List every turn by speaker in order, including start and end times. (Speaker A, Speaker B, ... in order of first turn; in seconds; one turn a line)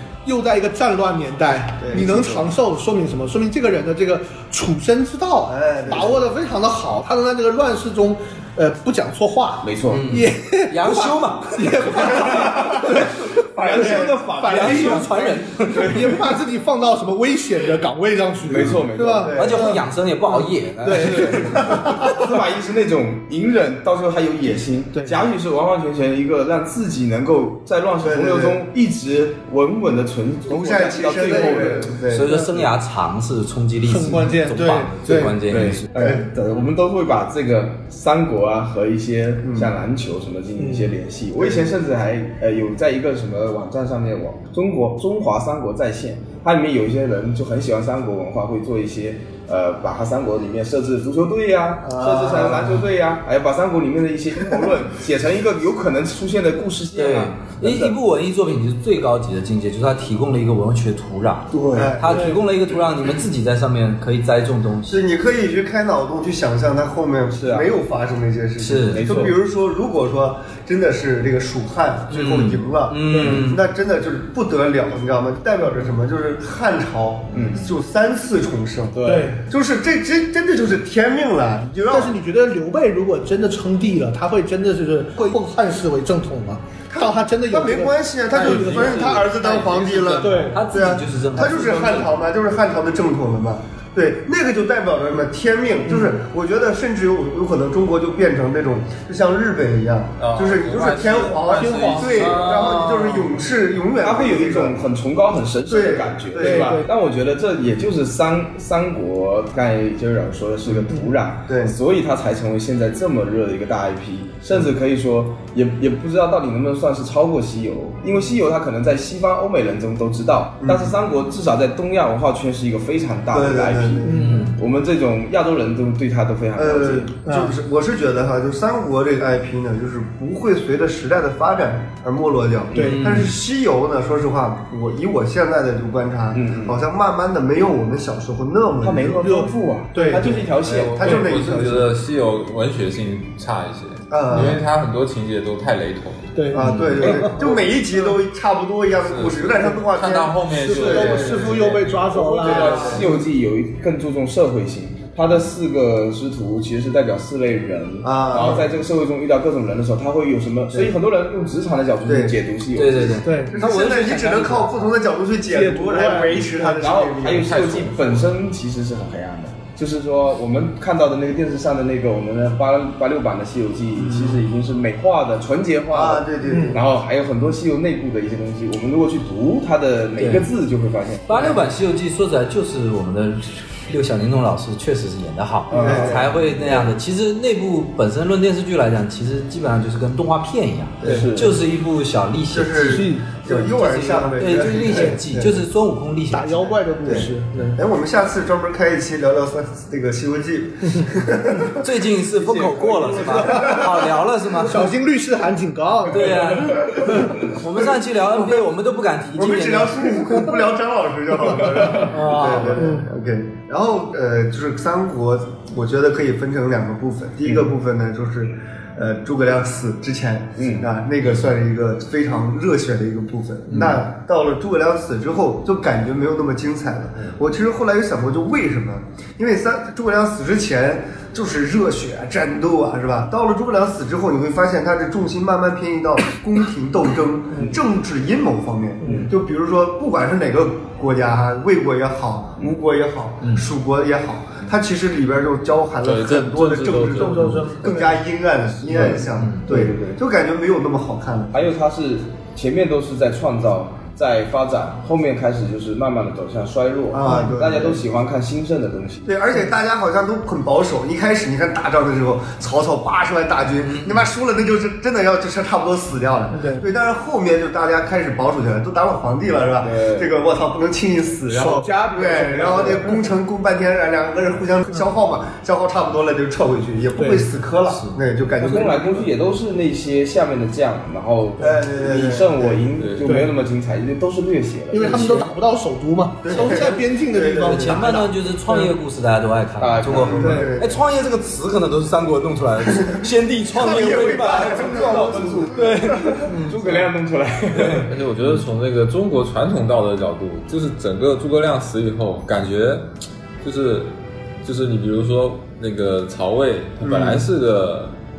Speaker A: 0.2-22.3
Speaker B: 1.8-2.5
Speaker B: 5.5-6.3
Speaker C: 9.6-10.2
Speaker D: 9.9-12.6
Speaker C: 12.2-16.2
Speaker B: 13.8-14.0
Speaker D: 14.4-16.1
Speaker C: 18.5-19.5
Speaker B: 19.2-19.7
Speaker D: 19.4-21.8
Speaker C: 20.9-32.0
Speaker B: 28.0-28.6
Speaker B: 30.4-32.4
Speaker A: 31.3-31.7
Speaker D: 32.1-35.9
Speaker A: 33.8-34.9
Speaker B: 35.0-35.4
Speaker C: 35.4-58.0
Speaker B: 35.9-36.3
Speaker B: 39.4-39.7
Speaker A: 40.6-40.9
Speaker B: 41.4-41.7
Speaker B: 51.8-52.9
Speaker D: 57.0-65.0
Speaker C: 61.5-62.0
Speaker B: 61.7-62.2
Speaker A: 62.0-62.4
Speaker B: 64.9-82.2
Speaker C: 67.4-67.7
Speaker D: 68.6-69.3
Speaker C: 68.9-69.4
Speaker D: 72.1-73.6
Speaker A: 73.1-73.5
Speaker C: 77.3-77.7
Speaker C: 78.9-79.4
Speaker A: 79.1-79.4
Speaker A: 81.9-89.3
Speaker B: 86.9-104.9
Speaker E: 88.3-90.5
Speaker A: 90.2-90.6
Speaker D: 90.5-92.1
Speaker E: 100.2-103.0
Speaker A: 101.4-102.4
Speaker D: 102.2-103.3
Speaker C: 104.0-127.2
Speaker B: 105.7-106.8
Speaker A: 106.4-106.9
Speaker B: 111.5-111.8
Speaker B: 120.6-121.0
Speaker B: 123.3-124.1
Speaker A: 124.0-124.5
Speaker D: 124.0-124.5
Speaker B: 126.6-139.3
Speaker A: 127.3-127.5
Speaker C: 132.7-133.2
Speaker A: 132.8-133.1
Speaker D: 132.8-133.3
Speaker C: 136.3-136.8
Speaker C: 138.8-141.4
Speaker A: 139.2-140.4
Speaker B: 140.6-141.9
Speaker E: 140.8-147.3
Speaker B: 144.1-144.6
Speaker A: 146.3-147.5
Speaker B: 146.5-151.6
Speaker D: 146.6-147.1
Speaker C: 147.0-147.3
Speaker E: 149.0-152.1
Speaker A: 150.6-153.1
Speaker C: 152.1-163.5
Speaker B: 152.4-153.2
Speaker B: 158.0-158.7
Speaker B: 162.1-162.4
Speaker D: 162.8-164.9
Speaker A: 163.2-163.5
Speaker B: 163.5-167.6
Speaker A: 165.5-166.9
Speaker C: 166.7-181.5
Speaker E: 167.4-168.3
Speaker B: 174.0-174.4
Speaker B: 175.9-176.8
Speaker A: 176.5-176.8
Speaker D: 180.2-180.4
Speaker D: 181.3-196.8
Speaker B: 181.3-181.6
Speaker C: 185.7-186.8
Speaker B: 185.8-186.4
Speaker B: 191.0-191.3
Speaker C: 191.0-191.6
Speaker B: 192.5-195.6
Speaker A: 192.8-193.3
Speaker A: 196.3-197.8
Speaker B: 197.0-201.8
Speaker D: 201.8-204.9
Speaker C: 202.3-203.8
Speaker A: 203.4-203.9
Speaker A: 204.6-207.3
Speaker D: 206.1-210.2
Speaker B: 209.3-251.6
Speaker C: 211.8-212.1
Speaker D: 212.0-212.9
Speaker A: 212.7-213.1
Speaker C: 220.6-220.9
Speaker C: 223.7-224.0
Speaker A: 239.0-239.3
Speaker C: 239.1-239.3
Speaker E: 246.0-247.8
Speaker A: 247.0-248.2
Speaker C: 248.9-250.2
Speaker D: 248.9-249.7
Speaker C: 251.5-259.3
Speaker B: 257.1-258.0
Speaker B: 259.3-279.3
Speaker A: 266.5-266.9
Speaker C: 269.8-270.3
Speaker A: 271.5-273.3
Speaker A: 277.2-277.5
Speaker D: 277.9-278.2
Speaker C: 278.6-285.5
Speaker B: 281.6-282.9
Speaker E: 283.0-283.4
Speaker A: 283.2-283.5
Speaker A: 284.9-288.9
Speaker D: 285.0-285.5
Speaker B: 286.4-288.0
Speaker D: 287.6-296.6
Speaker C: 289.8-290.7
Speaker B: 290.1-291.0
Speaker B: 292.9-296.0
Speaker C: 293.9-298.1
Speaker D: 297.7-298.1
Speaker E: 298.1-303.1
Speaker E: 303.6-304.1
Speaker E: 304.6-308.1
Speaker B: 307.0-307.5